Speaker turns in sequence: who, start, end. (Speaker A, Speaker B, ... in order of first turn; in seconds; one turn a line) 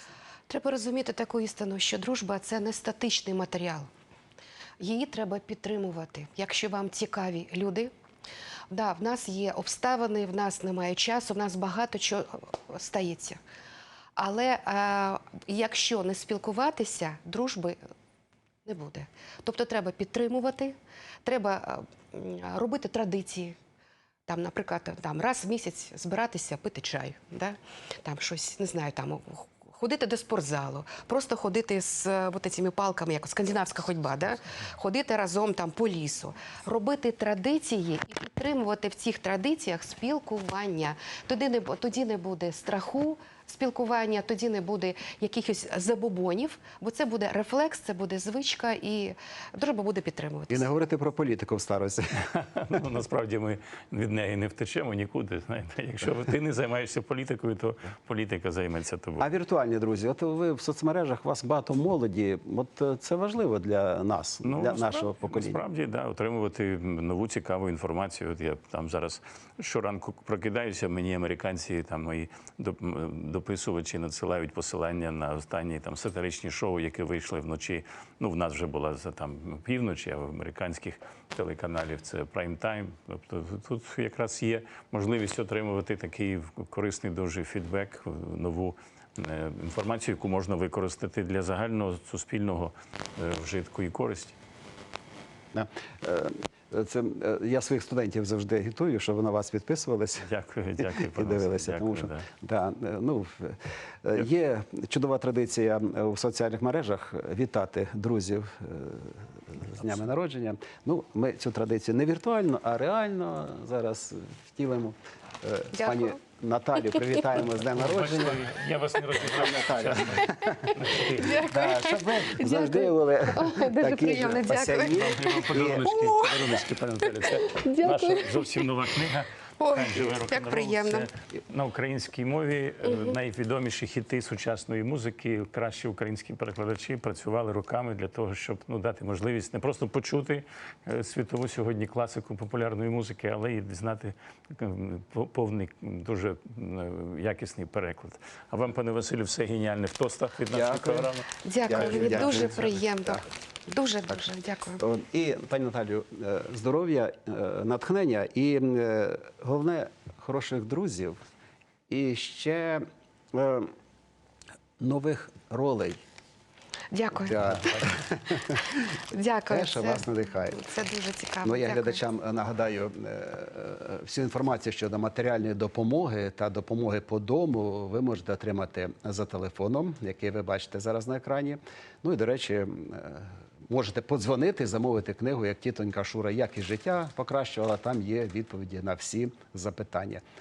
Speaker A: 0.5-3.9
Speaker A: 4.8-7.9
Speaker A: 8.7-13.4
Speaker A: 14.2-17.8
Speaker A: 18.6-23.6
Speaker A: 24.3-50.7
Speaker B: 50.5-52.3
Speaker C: 52.3-59.3
Speaker B: 59.2-65.6
Speaker C: 64.4-94.3
Speaker B: 95.5-100.3
Speaker C: 100.2-102.2
Speaker B: 100.8-118.4
Speaker A: 115.7-116.2
Speaker C: 117.7-121.5
Speaker B: 119.2-120.7
Speaker A: 121.2-126.4
Speaker B: 121.4-125.9
Speaker C: 125.0-151.3
Speaker A: 127.2-128.6
Speaker A: 129.6-131.1
Speaker A: 132.8-133.2
Speaker B: 150.5-151.1
Speaker A: 151.4-154.8
Speaker B: 151.7-153.2
Speaker B: 154.8-161.2
Speaker B: 161.9-163.7
Speaker B: 164.8-166.0
Speaker A: 166.9-167.8
Speaker B: 167.2-168.6
Speaker A: 169.1-172.0
Speaker B: 169.5-170.6
Speaker B: 171.4-190.2